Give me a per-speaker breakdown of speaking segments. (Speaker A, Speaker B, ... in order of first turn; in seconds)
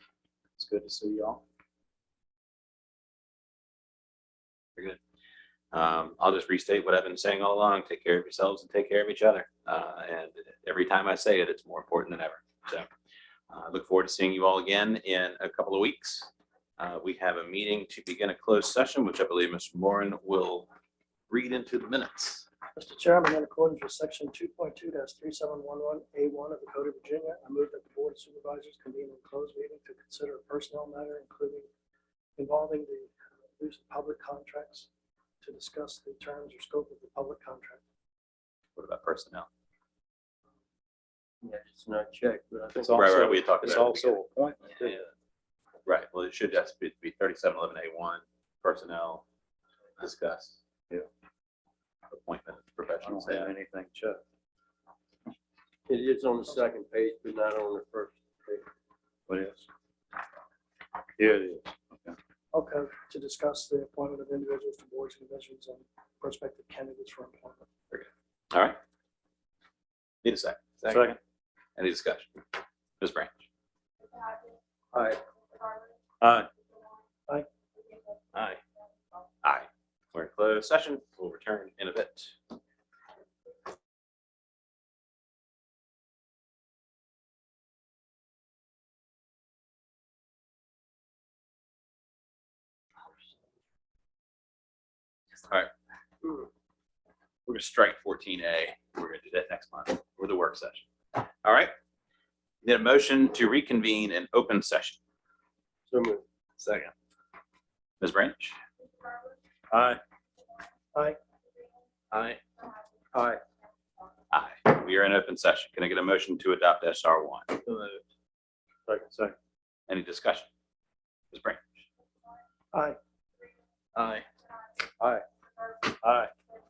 Speaker A: 0.6-1.4, 42.8-45.0, 53.0-54.2, 59.3-59.6, 61.2-62.1, 70.9-71.2, 76.2-76.5, 109.7-110.0, 118.9-119.3, 126.0-126.3
Speaker B: 5.7-12.9, 13.5-20.7, 21.3-22.5, 38.8-39.5, 42.9-44.1, 45.9-49.2, 50.0-50.6, 52.1-53.5, 67.9-68.8, 70.2-71.1, 71.8-72.4, 73.0-73.4, 79.4-82.4, 97.5-101.7, 102.6-105.0, 108.0-108.6, 114.3-117.5, 119.9-120.5, 121.3-121.8
Speaker C: 22.8-31.7, 32.4-34.9, 35.4-37.8, 62.5-67.7, 122.7-123.0
Speaker D: 41.4-43.2, 55.9-58.7, 74.9-75.2, 105.9-106.2, 113.1-113.4, 117.7-117.9